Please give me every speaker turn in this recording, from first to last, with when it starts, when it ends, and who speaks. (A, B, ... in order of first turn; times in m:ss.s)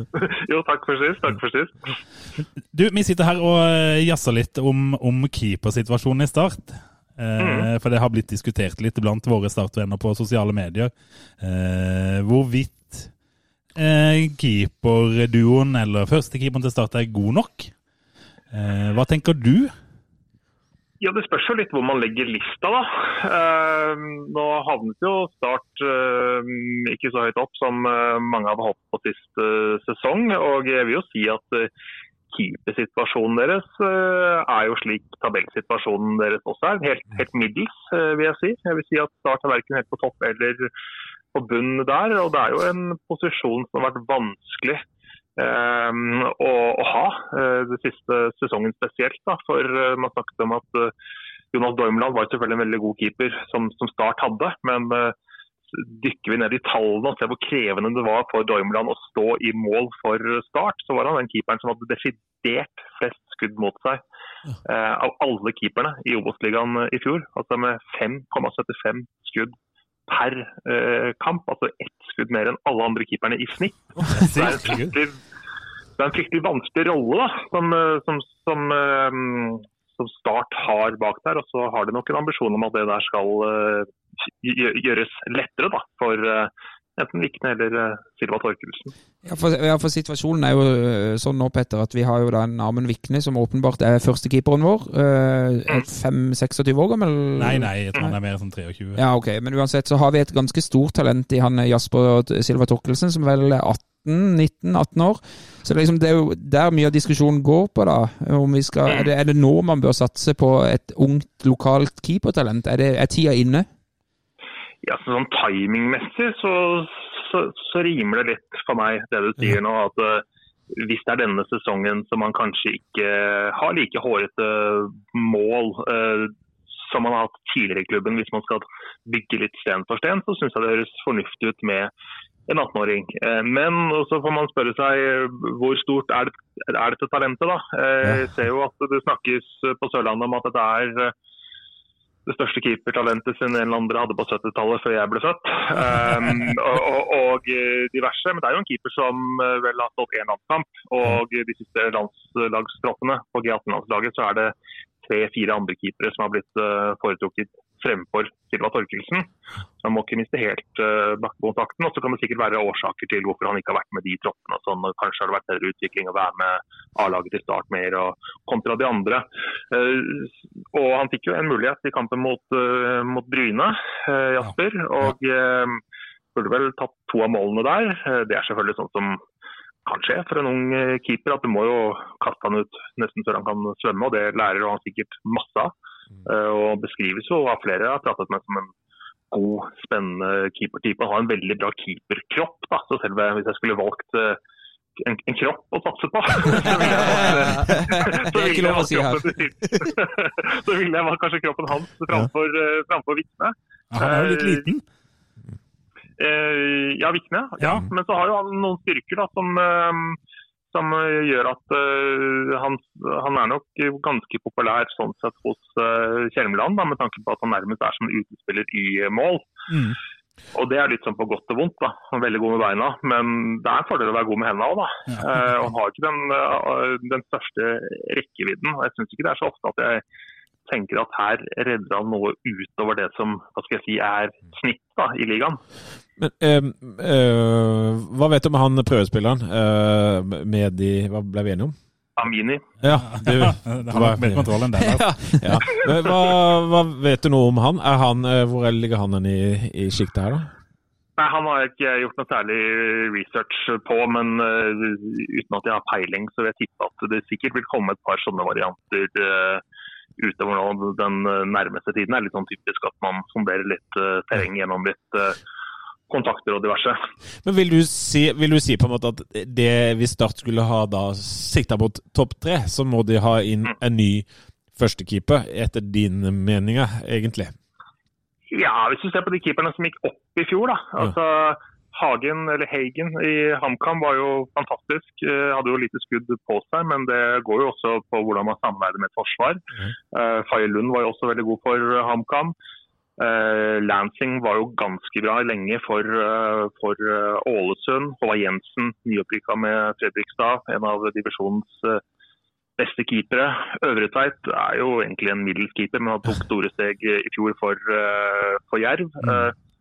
0:00.1-0:01.9 A
0:02.7-0:13.1 B
0:07.4-0:07.7 A
0:13.8-0:17.7 B
0:18.5-0:19.7 B
0:21.0-0:31.7 A
0:32.3-0:40.7 A
0:41.3-0:44.8 A
0:45.4-0:50.9 A
0:51.5-0:55.1 A
0:55.7-1:04.0 A
1:04.6-1:09.5 A
1:10.1-1:15.2 A
1:14.1-1:14.9 B
1:16.0-1:28.9 A
1:29.2-1:38.1 C
1:37.4-1:39.0 B
1:39.0-1:53.7 C
1:54.8-2:11.9 A
2:12.5-2:21.1 A
2:22.2-2:39.3 A
2:39.8-2:55.8 A
2:56.3-2:59.2 A
2:59.8-3:05.7 A
3:06.2-3:08.7 A
3:09.3-3:14.4 A
3:15.0-3:24.7 A
3:16.8-3:19.3 C
3:23.9-3:24.8 B
3:26.2-3:30.2 A
3:27.6-3:27.8 B
3:30.7-3:39.6 A
3:39.7-3:40.0 D
3:40.5-3:50.0 A
3:50.6-3:55.6 A
3:56.2-4:01.7 D
4:02.2-4:02.7 A
4:02.8-4:10.5 D
4:02.9-4:05.4 B
4:11.2-4:19.6 A
4:20.2-4:25.4 A
4:26.1-4:27.0 A
4:27.4-4:37.5 D
4:38.5-4:52.5 A
4:53.2-5:02.0 A
5:02.8-5:09.5 A